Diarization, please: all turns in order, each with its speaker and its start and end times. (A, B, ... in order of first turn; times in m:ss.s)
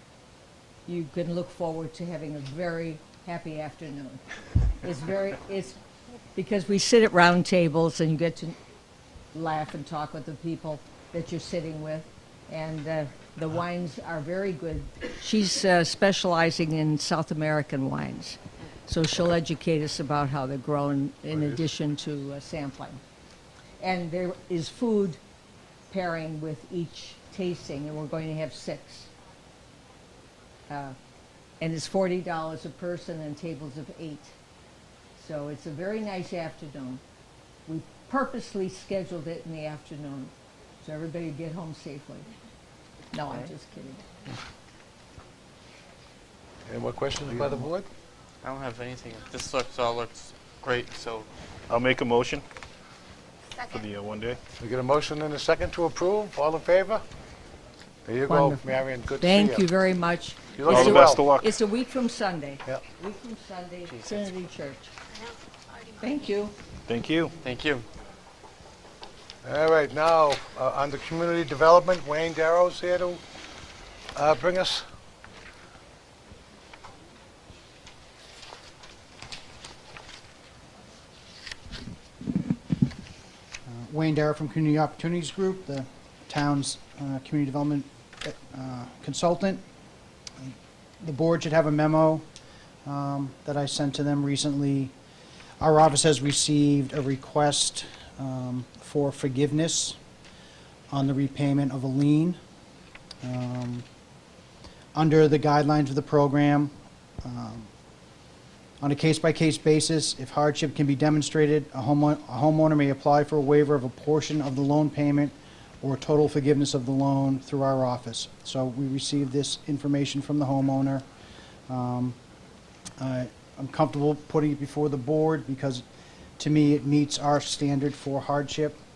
0:00.9-0:04.2 A
0:04.8-0:05.8 A
0:06.4-0:08.6 A
0:09.3-0:23.0 A
0:23.8-0:25.2 A
0:25.9-0:29.1 A
0:30.7-0:31.0 A
0:31.6-0:34.3 A
0:35.2-0:37.0 A
0:37.7-0:42.3 A
0:43.1-0:44.0 A
0:46.7-0:47.9 B
0:48.4-0:51.3 C
0:51.7-0:52.4 D
0:53.7-0:54.4 D
0:54.6-0:57.0 B
0:58.1-0:59.7 B
0:58.3-0:58.6 A
0:59.2-1:04.9 A
1:00.6-1:01.2 B
1:00.7-1:01.5 D
1:03.9-1:04.2 C
1:06.0-1:06.5 A
1:06.9-1:07.4 D
1:07.4-1:07.9 C
1:09.4-1:13.2 B
1:14.2-1:14.8 B
1:23.7-1:29.6 E
1:30.4-1:32.2 E
1:32.8-1:34.9 E
1:35.6-1:40.0 E
1:40.9-1:42.4 E
1:43.2-1:43.8 E
1:45.0-1:46.7 E
1:47.2-1:47.7 E
1:48.8-2:01.0 E
2:01.7-2:02.2 E
2:03.0-2:05.8 E
2:06.4-2:08.8 E